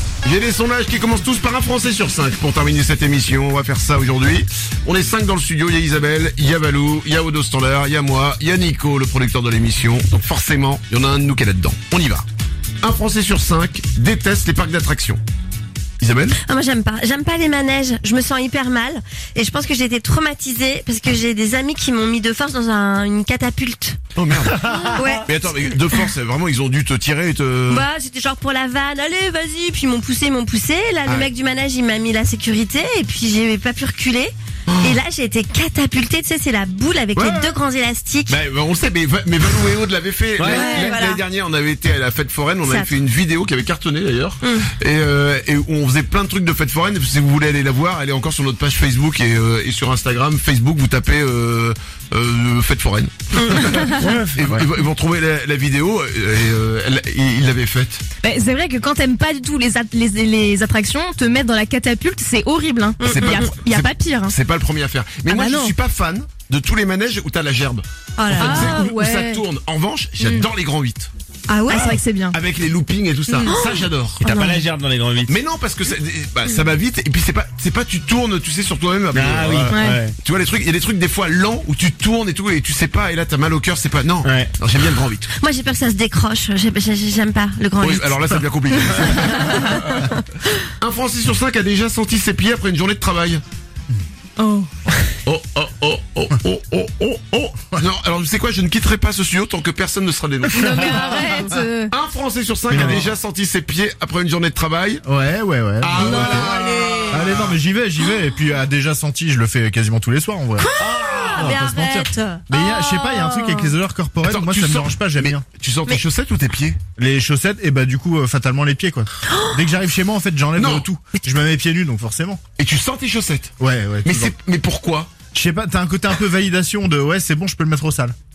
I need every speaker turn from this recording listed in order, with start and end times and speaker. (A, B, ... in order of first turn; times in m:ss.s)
0:00.2-0:12.2 A
0:12.8-0:15.2 A
0:16.0-0:16.4 A
0:16.4-0:24.0 B
0:24.2-0:27.9 A
0:24.7-0:25.4 B
0:27.7-0:38.4 B
0:34.7-0:35.0 A
0:37.1-0:37.5 A
0:38.3-0:58.0 A
0:40.4-0:40.7 C
0:40.4-0:41.2 B
0:40.6-0:40.9 D
0:42.6-0:43.0 B
0:44.4-0:44.7 B
0:53.9-0:54.7 C
0:58.2-1:04.3 D
1:03.0-1:03.5 B
1:03.0-1:11.1 A
1:05.3-1:05.8 D
1:08.2-1:08.8 B
1:08.3-1:09.4 D
1:10.2-1:10.5 D
1:11.5-1:12.4 D
1:11.7-1:12.0 C
1:12.3-1:14.3 A
1:13.3-1:13.7 D
1:13.4-1:13.9 B
1:14.2-1:15.3 C
1:14.2-1:14.6 D
1:15.3-1:25.3 A
1:19.1-1:20.2 C
1:19.7-1:20.0 D
1:24.2-1:24.5 C
1:25.4-1:28.4 B
1:27.8-1:30.1 A
1:29.0-1:29.8 B
1:30.8-1:33.4 A
1:34.4-1:34.7 D
1:35.3-1:41.4 A
1:40.4-1:41.9 D
1:41.0-1:41.4 E
1:41.9-1:45.0 A
1:42.7-1:43.1 C
1:42.7-1:43.1 E
1:45.0-1:50.7 E
1:45.8-1:47.6 A
1:46.0-1:47.1 B
1:50.6-1:52.5 B
1:50.8-1:51.5 C
1:51.4-1:55.4 E
1:54.2-1:56.8 A
1:57.0-2:02.4 E
2:00.6-2:00.9 A
2:02.6-2:05.1 A
2:03.6-2:04.3 E
2:05.3-2:08.2 E